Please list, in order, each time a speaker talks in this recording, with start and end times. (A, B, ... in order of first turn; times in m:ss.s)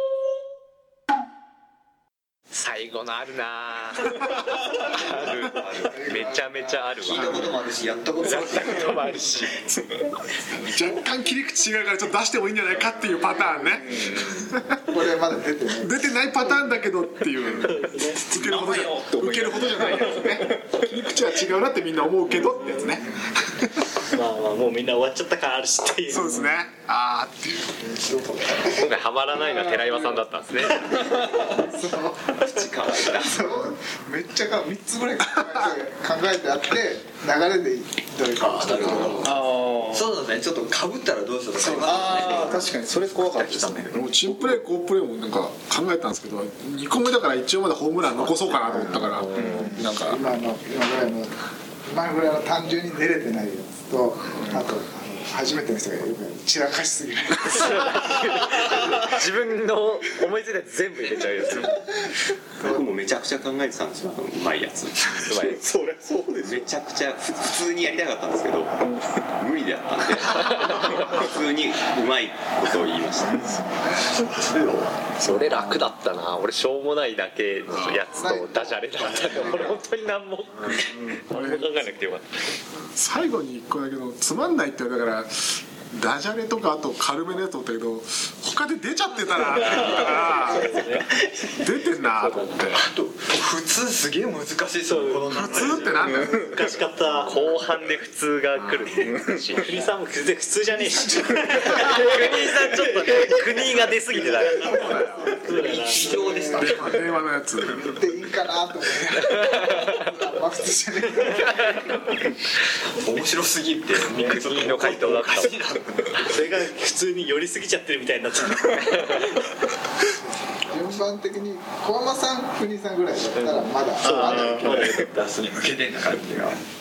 0:02.5-0:07.5 A
0:05.8-0:06.8 B
0:07.0-0:09.0 C
0:07.1-0:07.5 D
0:08.2-0:09.9 A
0:10.5-0:14.9 D
0:13.9-0:14.5 A
0:14.7-0:16.1 B
0:15.8-0:23.7 D
0:17.6-0:18.2 E
0:18.2-0:20.6 F
0:24.0-0:26.4 E
0:26.1-0:27.8 D
0:27.8-0:28.9 B
0:28.6-0:31.2 A
0:31.0-0:32.4 B
0:32.3-0:33.7 C
0:33.1-0:39.4 B
0:38.4-0:42.6 C
0:38.8-0:39.1 D
0:39.2-0:40.1 F
0:41.6-0:44.6 F
0:43.9-0:50.2 D
0:49.3-0:49.7 A
0:49.4-0:49.7 F
0:49.8-0:58.2 B
0:57.5-1:02.1 A
1:02.6-1:13.6 F
1:05.3-1:05.7 A
1:10.6-1:11.0 A
1:13.4-1:14.2 D
1:15.2-1:22.4 A
1:15.2-1:15.8 F
1:17.8-1:18.0 D
1:18.1-1:19.8 B
1:21.3-1:21.8 D
1:22.9-1:31.0 D
1:29.6-1:31.5 E
1:31.5-1:32.8 D
1:32.1-1:32.7 E
1:32.7-1:36.1 C
1:34.9-1:37.5 E
1:35.3-1:36.7 D
1:37.2-1:39.7 A
1:39.0-1:43.7 E
1:41.0-1:41.8 B
1:41.6-1:45.0 A
1:44.3-1:46.1 E
1:44.7-1:46.9 B
1:44.8-1:47.2 C
1:46.5-1:47.9 D
1:47.7-1:52.2 B
1:49.2-1:50.0 A
1:52.9-1:56.2 C
1:54.1-1:55.6 A
1:56.2-1:59.5 E
2:00.5-2:05.1 B
2:04.0-2:05.1 E
2:04.0-2:06.6 C